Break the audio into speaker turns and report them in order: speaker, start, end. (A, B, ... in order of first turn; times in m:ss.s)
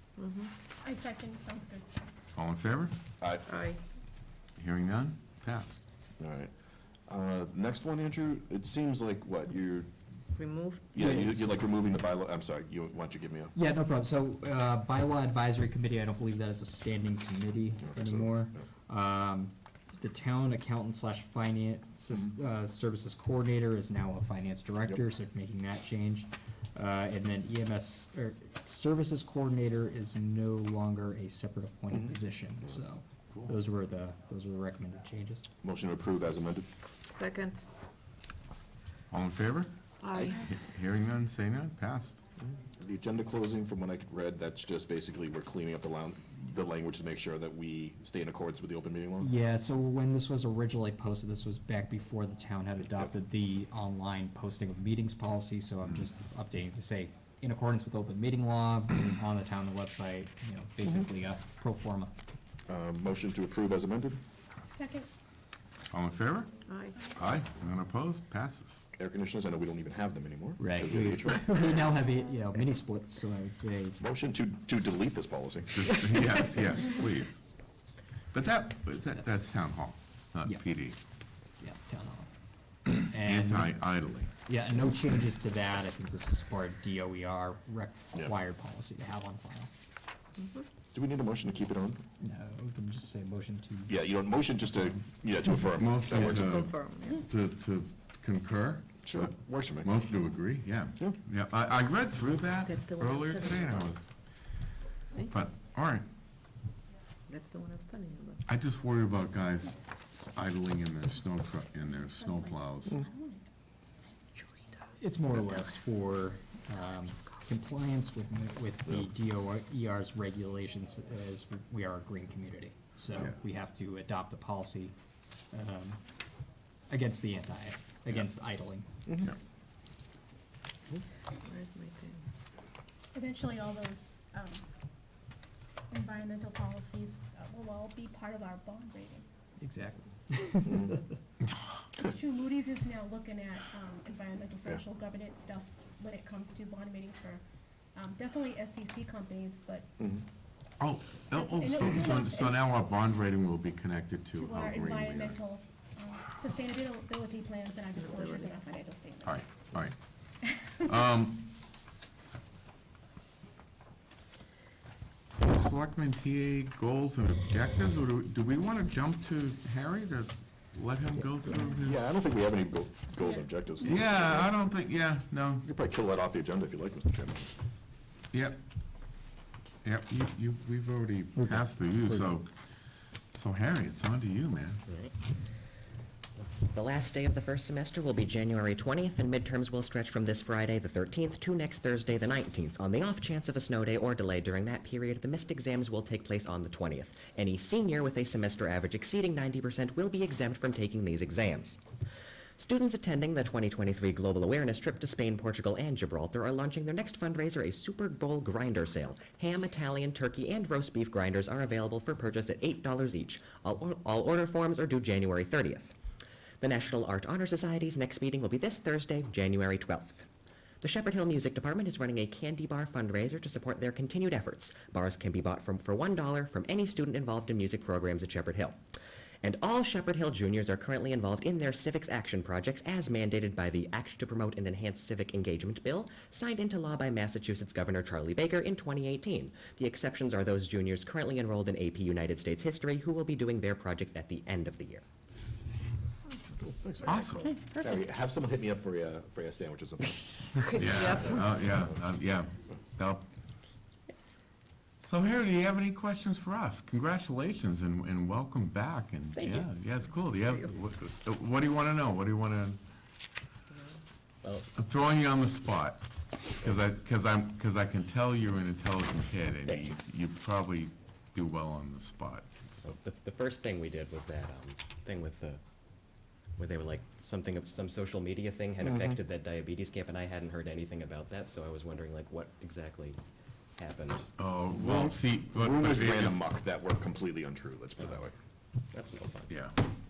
0:00.2-0:00.5 A
0:00.8-0:01.9 B
0:02.4-0:02.9 C
0:03.2-0:03.6 D
0:03.5-0:03.8 A
0:04.6-0:05.8 C
0:06.2-0:06.5 D
0:07.1-0:09.9 D
0:10.4-0:10.9 A
0:10.9-0:13.5 D
0:11.0-0:11.5 E
0:13.5-0:35.4 E
0:17.8-0:18.6 D
0:35.6-0:36.6 D
0:37.1-0:37.6 A
0:39.1-0:39.7 C
0:40.0-0:40.4 A
0:40.1-0:40.4 D
0:40.4-0:42.2 C
0:42.4-0:49.3 D
0:49.2-1:02.1 E
1:02.7-1:04.2 D
1:04.7-1:05.1 B
1:05.9-1:06.5 C
1:06.7-1:07.0 A
1:07.1-1:08.8 C
1:09.0-1:11.9 D
1:10.6-1:14.0 E
1:14.0-1:16.3 D
1:15.7-1:17.4 C
1:18.3-1:21.0 C
1:21.6-1:22.3 E
1:22.9-1:24.3 C
1:22.9-1:23.8 E
1:24.4-1:29.7 E
1:30.4-1:30.6 A
1:30.9-1:32.0 D
1:32.2-1:34.0 E
1:33.9-1:36.7 D
1:35.6-1:44.1 C
1:36.2-1:37.2 A
1:39.0-1:39.9 D
1:42.7-1:43.9 A
1:45.3-1:46.0 C
1:47.3-1:48.4 A
1:48.4-1:49.8 C
1:50.3-1:53.0 C
1:52.2-1:53.4 B
1:54.4-1:54.7 A
1:55.0-2:04.9 E
2:05.5-2:06.0 E
2:06.9-2:08.9 E
2:11.4-2:12.2 A
2:13.1-2:14.6 B
2:15.9-2:19.2 B
2:19.6-2:21.0 E
2:20.7-2:20.9 D
2:22.0-2:27.4 B
2:27.9-2:29.8 B
2:30.0-2:30.2 D
2:30.8-2:35.4 C
2:31.3-2:32.7 B
2:34.4-2:39.3 B
2:37.7-2:38.7 A
2:39.2-2:40.0 C
2:40.4-2:40.9 B
2:40.8-2:41.5 C
2:45.4-2:52.0 C
2:51.8-2:54.6 D
2:53.2-2:53.5 B
2:53.8-2:55.6 C
2:55.6-2:57.5 D
2:59.8-3:02.5 C
3:01.3-3:02.3 E
3:03.3-3:04.8 C
3:04.9-3:05.1 F
3:06.3-3:21.8 F
3:22.6-3:35.9 F
3:36.6-3:40.2 F
3:40.8-3:48.8 F
3:49.4-4:05.0 F
4:06.6-4:11.9 D
4:07.0-4:07.6 C
4:10.7-4:11.7 A
4:10.7-4:13.2 C
4:15.0-4:22.8 C
4:19.4-4:19.6 A
4:24.7-4:32.9 C
4:32.8-4:35.6 F
4:36.6-4:43.2 F
4:38.9-4:39.1 D
4:43.8-4:44.2 F
4:44.4-4:46.4 C
4:44.7-4:48.3 D
4:48.9-4:49.5 F
4:49.5-4:49.8 C